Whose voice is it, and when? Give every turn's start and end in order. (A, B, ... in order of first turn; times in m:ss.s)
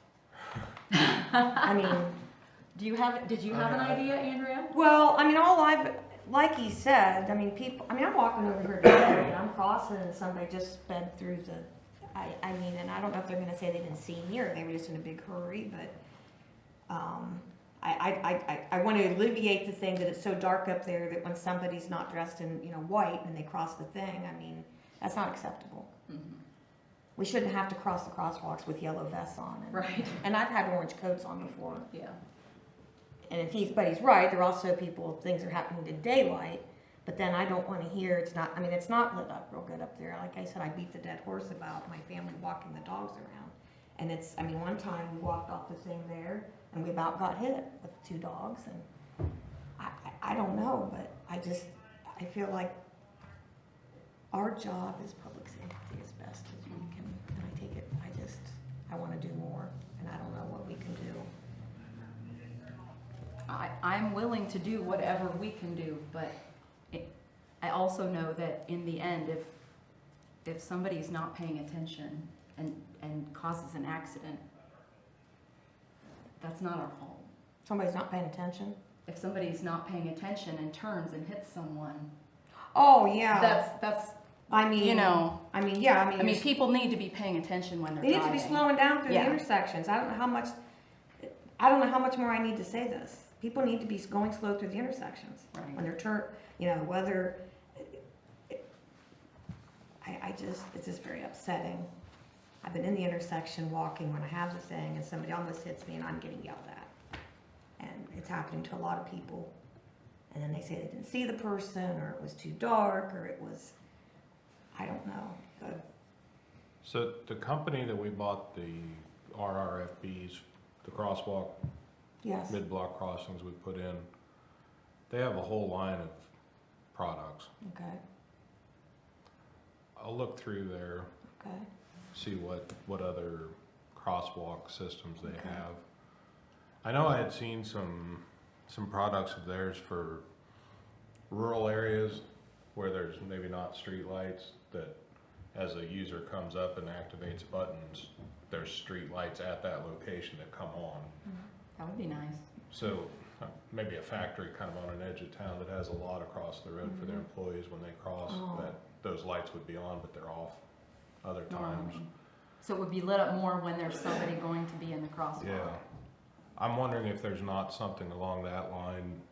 0:00.9-0:01.6 A
0:01.6-0:02.2 B
0:02.8-0:04.7 A
0:04.7-0:16.0 B
0:16.9-0:25.9 B
0:26.1-0:26.4 A
0:27.2-0:31.9 B
0:29.7-0:30.2 A
0:31.9-0:32.2 A
0:33.3-0:48.9 B
0:49.8-0:52.8 B
0:54.3-1:01.3 B
1:03.5-1:06.4 A
1:07.6-1:09.6 A
1:10.4-1:14.4 A
1:16.4-1:17.3 A
1:17.6-1:18.8 B
1:19.1-1:22.1 A
1:22.7-1:23.7 B
1:23.3-1:24.2 A
1:24.5-1:26.5 B
1:24.8-1:25.4 A
1:26.2-1:29.4 A
1:28.0-1:30.6 B
1:31.2-1:38.6 B
1:35.5-1:35.8 A
1:40.0-1:41.9 B
1:42.6-1:46.9 B
1:47.8-1:49.5 B
1:50.3-1:53.8 B
1:54.7-1:55.8 B
1:56.8-2:01.6 C
2:02.2-2:02.6 B
2:02.5-2:04.1 C
2:05.1-2:06.3 C
2:06.9-2:07.5 C
2:07.6-2:08.0 B
2:10.0-2:11.1 C
2:11.4-2:11.7 B
2:12.1-2:15.8 C
2:15.2-2:15.6 B
2:16.8-2:20.2 C
2:21.3-2:25.0 C
2:25.5-2:31.1 C
2:31.8-2:32.4 A
2:32.7-2:40.6 C
2:36.8-2:37.2 B
2:38.3-2:38.7 B
2:41.2-2:42.0 C
2:41.5-2:42.1 A
2:42.6-2:45.8 A
2:45.4-2:45.8 C
2:46.6-2:49.2 C